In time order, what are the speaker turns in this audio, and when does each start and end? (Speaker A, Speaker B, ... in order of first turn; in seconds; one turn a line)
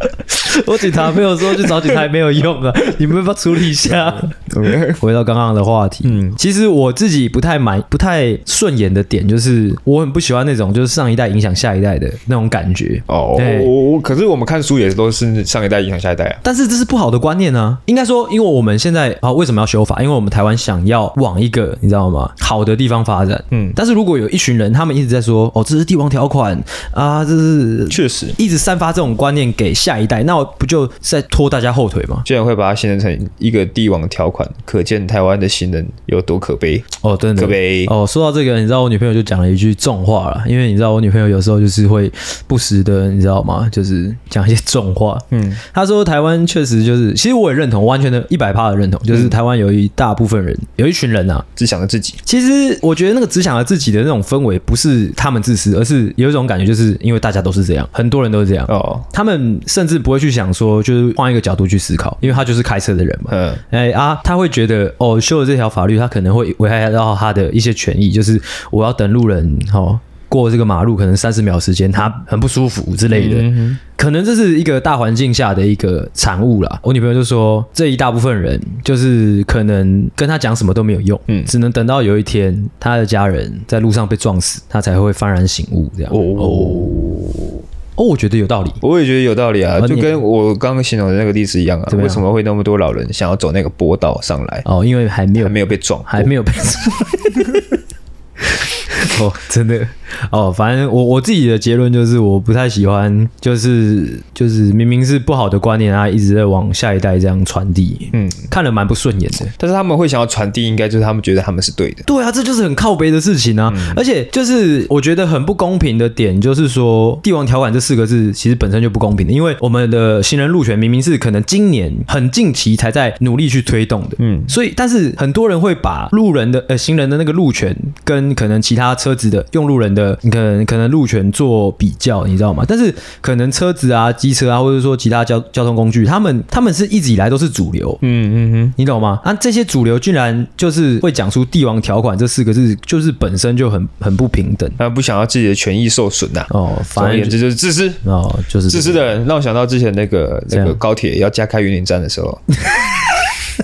Speaker A: 0.3-13.7
Speaker B: 0.9-1.9
Speaker B: 4.2-5.0
Speaker B: 6.0-6.4
Speaker B: 13.1-16.4
Speaker A: 16.4-32.3
Speaker B: 23.5-23.8
Speaker B: 27.9-28.4
Speaker B: 32.2-37.9
Speaker A: 37.0-51.5
Speaker B: 45.3-45.6
Speaker B: 51.6-52.2
Speaker A: 52.2-86.9
Speaker B: 58.7-59.0
Speaker B: 63.3-63.6
Speaker B: 73.1-73.8
Speaker B: 86.1-87.6
Speaker A: 88.0-88.8
Speaker B: 88.8-94.7
Speaker A: 89.8-90.2
Speaker A: 91.9-92.2
Speaker A: 94.7-95.5
Speaker B: 95.4-96.3
Speaker A: 96.1-97.8
Speaker A: 98.5-109.5
Speaker B: 108.1-108.5
Speaker B: 109.6-112.1
Speaker A: 112.1-138.0
Speaker B: 113.7-114.0
Speaker B: 124.2-124.5
Speaker B: 138.0-138.8
Speaker A: 138.8-144.8
Speaker B: 144.8-148.0
Speaker A: 146.5-147.4
Speaker A: 148.0-149.0
Speaker B: 148.7-152.4
Speaker A: 150.5-150.8